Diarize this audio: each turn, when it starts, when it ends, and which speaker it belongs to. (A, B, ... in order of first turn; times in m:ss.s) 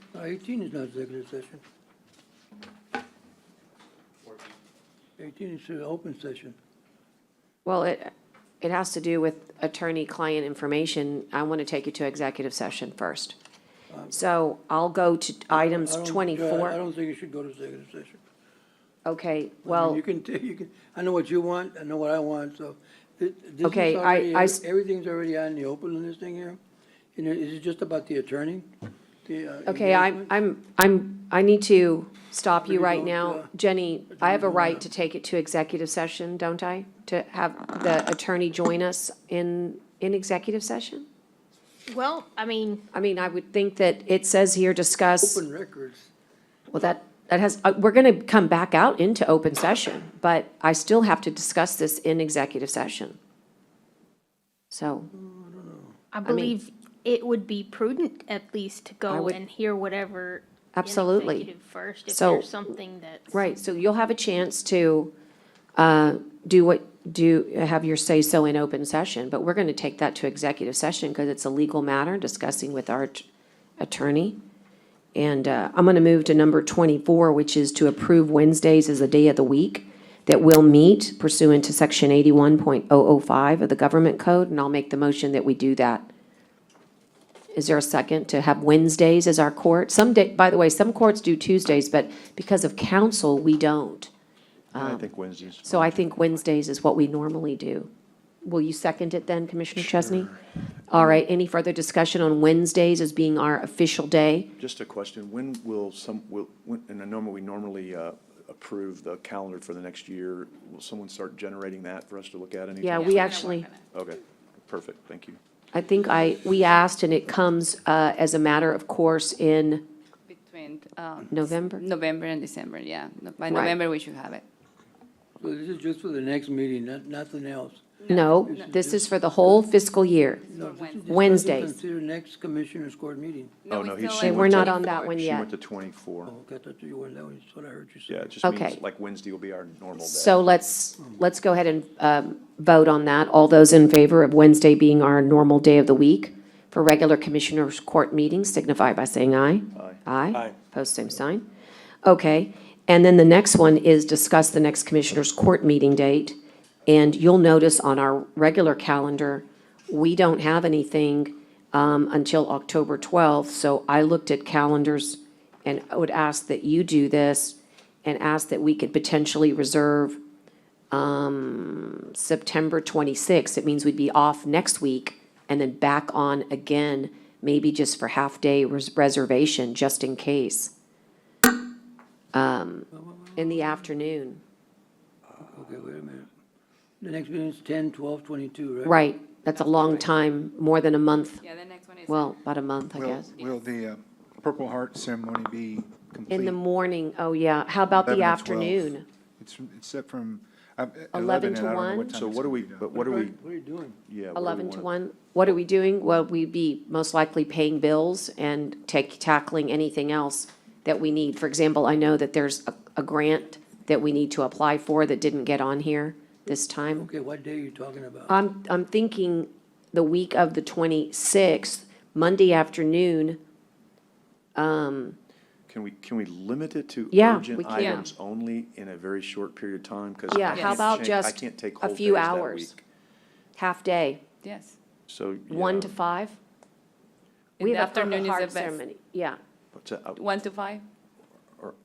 0:00.1-0:01.6 A
0:05.2-0:06.6 A
0:07.6-0:13.4 B
0:13.9-0:14.2 A
0:14.1-0:16.8 B
0:15.5-0:18.2 A
0:19.0-0:20.0 B
0:19.6-0:26.6 A
0:23.6-0:24.6 B
0:27.1-0:28.7 A
0:29.2-0:30.3 A
0:29.6-0:41.0 B
0:32.6-0:33.5 A
0:34.2-0:34.8 A
0:41.9-0:42.8 C
0:42.9-0:45.4 B
0:45.2-0:46.1 A
0:46.7-0:53.2 B
0:54.7-0:55.1 B
0:55.1-0:56.0 A
0:56.1-1:03.3 C
0:56.2-0:56.5 B
0:59.1-0:59.4 B
1:00.7-1:01.5 B
1:02.1-1:02.7 B
1:03.3-1:05.1 B
1:05.8-1:13.2 B
1:13.8-1:14.4 B
1:15.1-1:26.1 B
1:27.5-1:34.1 B
1:34.7-1:35.0 B
1:34.7-1:36.4 D
1:35.6-1:37.9 B
1:38.4-1:40.3 B
1:40.9-1:44.5 B
1:44.6-1:55.4 D
1:52.8-1:53.7 B
1:52.9-1:53.8 E
1:55.7-1:59.8 B
2:00.3-2:04.4 E
2:01.3-2:01.8 B
2:03.5-2:03.7 B
2:05.4-2:09.6 A
2:08.0-2:08.6 E
2:08.1-2:10.4 B
2:10.4-2:11.5 E
2:10.5-2:13.6 A
2:11.1-2:11.7 B
2:13.6-2:15.1 E
2:13.7-2:16.3 D
2:14.2-2:15.5 B
2:16.2-2:18.3 A
2:18.1-2:20.4 D
2:18.4-2:18.8 B
2:20.0-2:31.4 B
2:29.7-2:30.0 D
2:32.0-2:50.2 B
2:50.9-3:00.7 B
3:02.3-3:04.4 B
3:03.0-3:03.6 A
3:05.4-3:06.3 A
3:07.0-3:09.0 A
3:08.8-3:11.4 B
3:09.5-3:10.1 E
3:11.4-3:12.3 E
3:12.1-3:13.3 B
3:13.0-3:16.6 F
3:16.3-3:19.0 B
3:18.0-3:22.9 F
3:21.1-3:22.1 B
3:22.1-3:23.3 D
3:22.9-3:24.0 A
3:24.0-3:24.9 D
3:24.3-3:37.1 B
3:36.9-3:38.4 A
3:38.3-3:43.4 B
3:44.6-3:45.2 B
3:45.7-3:52.8 D
3:47.1-3:48.1 B
3:47.7-3:48.0 E
3:50.3-3:52.8 B
3:50.5-3:51.0 E
3:53.6-3:54.2 B
3:54.4-3:54.7 E
3:55.1-3:56.0 D
3:55.5-3:56.4 B
3:57.6-3:58.8 E
3:57.6-3:59.4 B
3:59.7-4:00.2 D
4:00.2-4:00.8 E